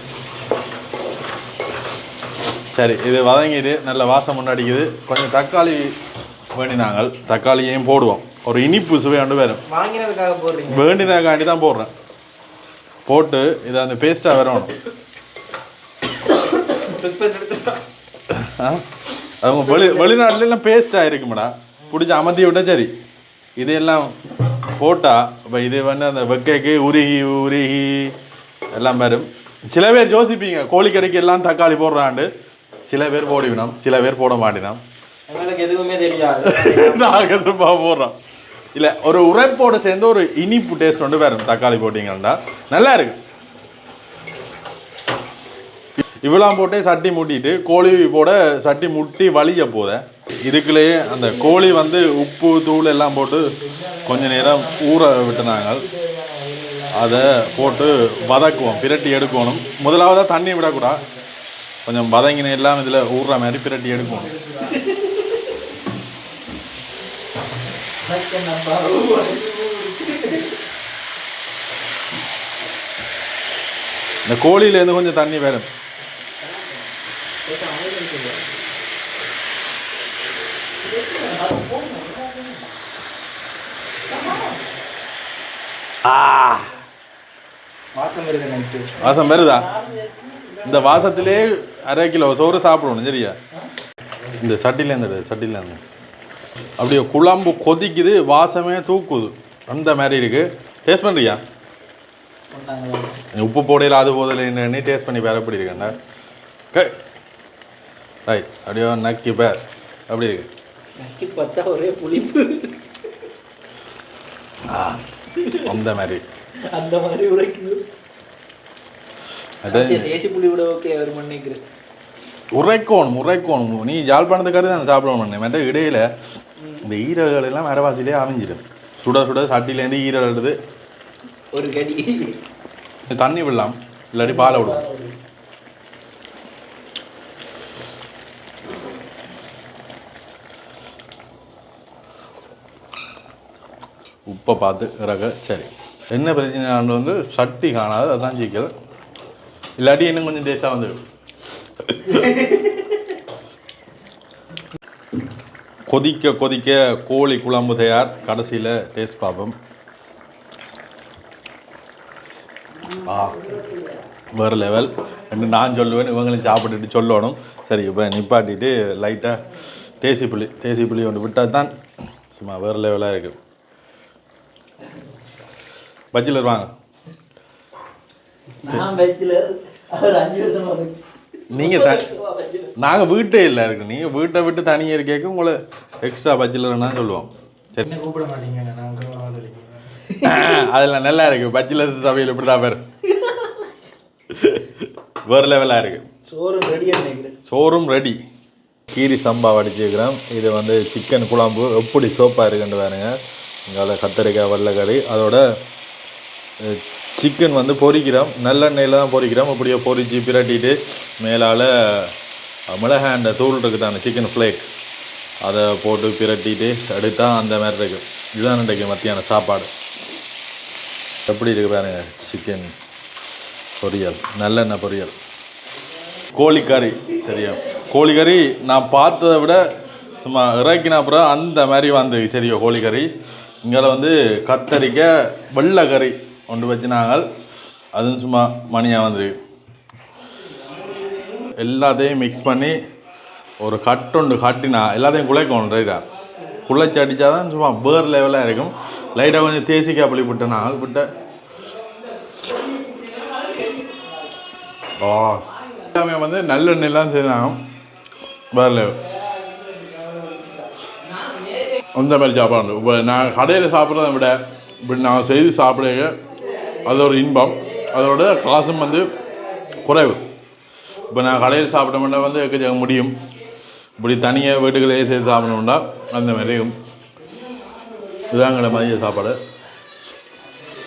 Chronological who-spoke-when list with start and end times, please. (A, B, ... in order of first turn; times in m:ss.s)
0:02.7-0:05.9 A
0:06.5-0:09.6 A
0:09.7-0:11.1 B
0:10.7-0:11.9 A
0:13.0-0:14.7 A
0:16.7-0:17.8 B
0:18.3-0:18.8 A
0:19.4-0:22.9 A
0:19.7-0:20.0 B
0:23.6-0:24.1 A
0:24.8-0:28.2 A
0:28.7-0:32.3 A
0:32.8-0:34.8 A
0:35.3-0:37.4 B
0:36.4-0:38.2 A
0:38.7-0:43.2 A
0:46.2-0:55.8 A
0:51.1-0:52.1 B
0:53.5-0:59.9 B
0:56.9-1:01.0 A
0:57.7-0:59.4 C
1:00.6-1:01.2 B
1:01.8-1:04.3 A
1:03.9-1:04.8 B
1:04.6-1:05.2 C
1:08.0-1:10.5 C
1:14.2-1:15.7 A
1:17.5-1:18.4 B
1:17.7-1:18.3 C
1:20.9-1:22.5 C
1:26.0-1:26.7 A
1:27.9-1:29.0 B
1:29.0-1:29.7 A
1:29.0-1:31.1 C
1:30.6-1:33.4 A
1:34.4-1:35.8 A
1:36.8-1:41.4 A
1:42.5-1:43.1 C
1:43.3-1:46.0 A
1:48.3-1:49.6 A
1:50.1-1:50.5 A
1:51.0-1:52.7 C
1:54.7-1:55.0 A
1:55.4-1:55.7 C
1:55.6-1:56.2 A
1:56.7-1:57.8 C
1:59.6-2:00.2 A
1:59.7-2:01.6 C
2:02.5-2:06.0 A
2:06.8-2:10.6 A
2:11.5-2:12.4 C
2:13.1-2:14.8 A
2:14.2-2:15.2 C
2:24.3-2:28.7 A
2:29.8-2:31.0 A
2:31.8-2:32.5 A
2:35.9-2:39.5 A
2:43.0-2:43.5 A
2:44.4-2:49.4 A
2:50.0-2:51.7 A
2:52.3-2:53.4 A
2:56.1-2:56.7 A
2:58.5-3:01.0 C
3:01.5-3:02.1 A
3:01.5-3:02.8 C
3:02.8-3:07.8 A
3:07.8-3:09.9 B
3:10.2-3:10.6 C
3:10.2-3:12.8 A
3:13.2-3:13.6 C
3:14.3-3:16.1 A
3:16.2-3:17.3 C
3:17.4-3:18.2 A
3:18.9-3:23.1 A
3:23.7-3:25.4 A
3:26.6-3:32.1 A
3:32.7-3:34.8 A
3:35.4-3:39.7 A
3:41.3-3:42.7 A
3:43.8-3:45.1 A
3:46.3-3:49.6 A
3:50.2-3:53.1 A
3:53.6-3:57.2 A
3:57.9-3:59.3 A
4:01.6-4:02.8 A
4:03.6-4:06.0 A
4:06.6-4:11.1 A
4:15.0-4:17.6 A
4:18.5-4:19.0 A
4:21.9-4:26.2 A
4:26.8-4:29.1 A
4:29.8-4:30.2 A
4:31.1-4:33.2 A
4:34.0-4:36.8 A
4:38.3-4:39.4 A